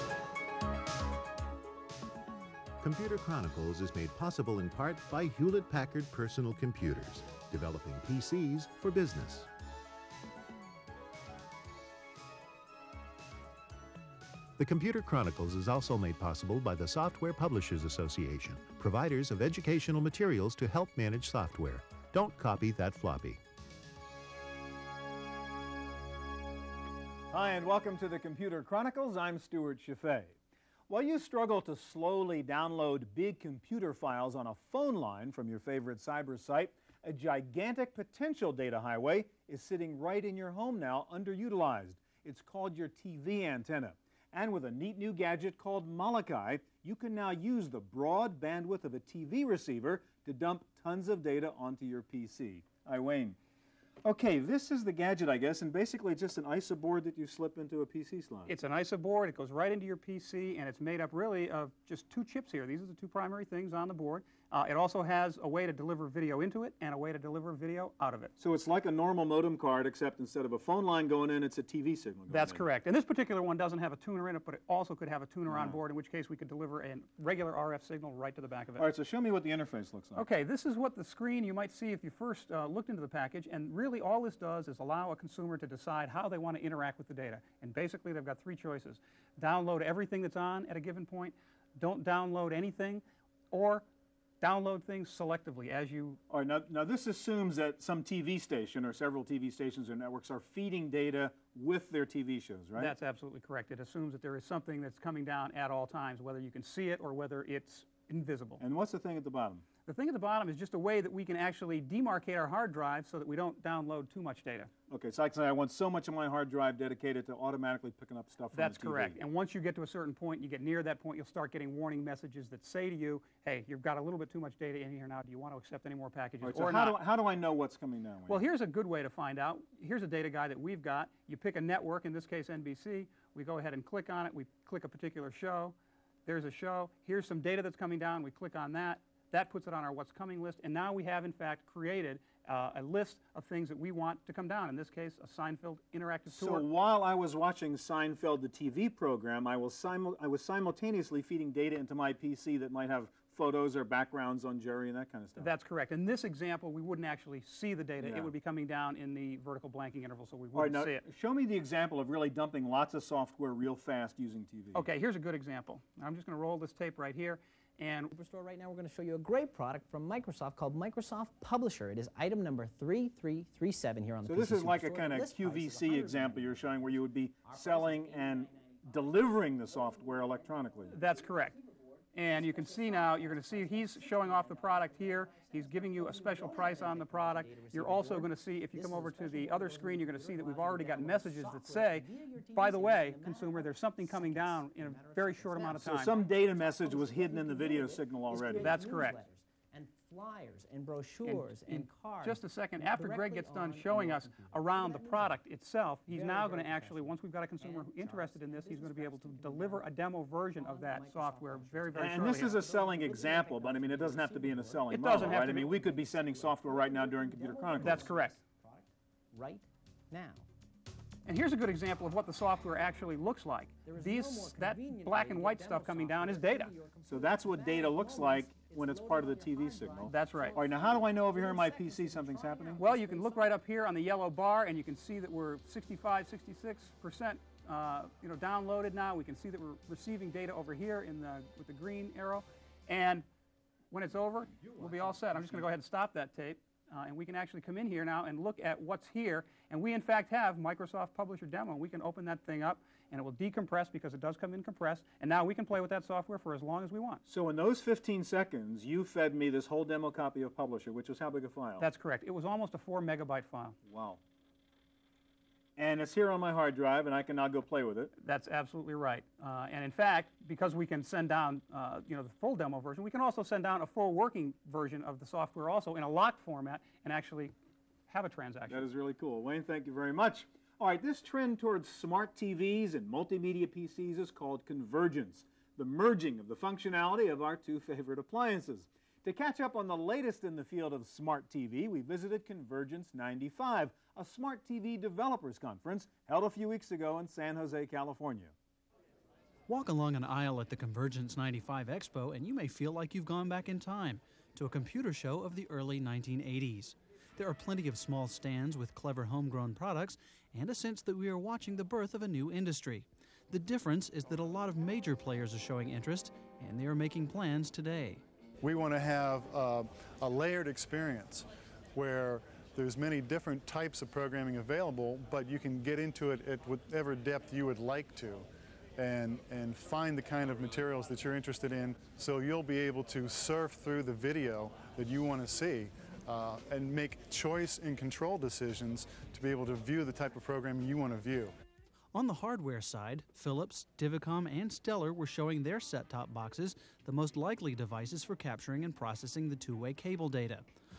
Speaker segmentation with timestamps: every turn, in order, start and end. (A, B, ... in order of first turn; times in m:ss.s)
0:02.8-0:09.5 A
0:14.6-0:23.4 A
0:27.3-0:30.4 B
0:30.9-0:53.4 B
0:54.0-0:58.5 B
0:58.5-1:08.3 C
1:08.4-1:12.6 B
1:12.3-1:18.9 C
1:15.5-1:15.8 B
1:18.8-1:20.3 B
1:20.1-1:33.9 C
1:34.4-1:36.2 C
1:36.3-1:42.9 B
1:42.8-1:48.6 C
1:48.6-1:49.6 B
1:49.8-1:54.7 C
1:54.9-1:59.2 B
1:58.5-2:07.0 C
2:06.4-2:08.4 B
2:08.3-2:26.7 C
2:26.3-2:35.5 B
2:35.4-2:41.0 C
2:38.0-2:38.3 B
2:40.5-2:44.8 B
2:44.7-2:48.1 C
2:48.1-2:58.8 D
2:54.2-3:01.0 B
2:59.7-3:25.4 D
3:00.9-3:01.6 C
3:02.1-3:16.2 C
3:15.7-3:18.9 B
3:18.5-3:19.2 C
3:21.2-3:32.6 C
3:26.1-3:40.4 D
3:31.9-3:38.1 B
3:34.9-3:35.8 C
3:37.8-3:38.4 C
3:41.2-3:46.8 C
3:43.8-3:53.6 D
3:47.0-3:52.9 B
3:50.0-3:50.6 C
3:52.8-4:03.2 C
4:03.9-4:17.2 C
4:04.6-4:05.7 B
4:17.3-4:21.9 B
4:21.8-4:23.8 C
4:23.8-4:24.2 B
4:25.8-4:28.1 B
4:28.2-4:37.5 C
4:38.1-4:38.9 C
4:38.7-4:58.5 B
4:59.7-5:18.2 E
5:18.6-5:41.5 F
5:42.1-5:50.6 E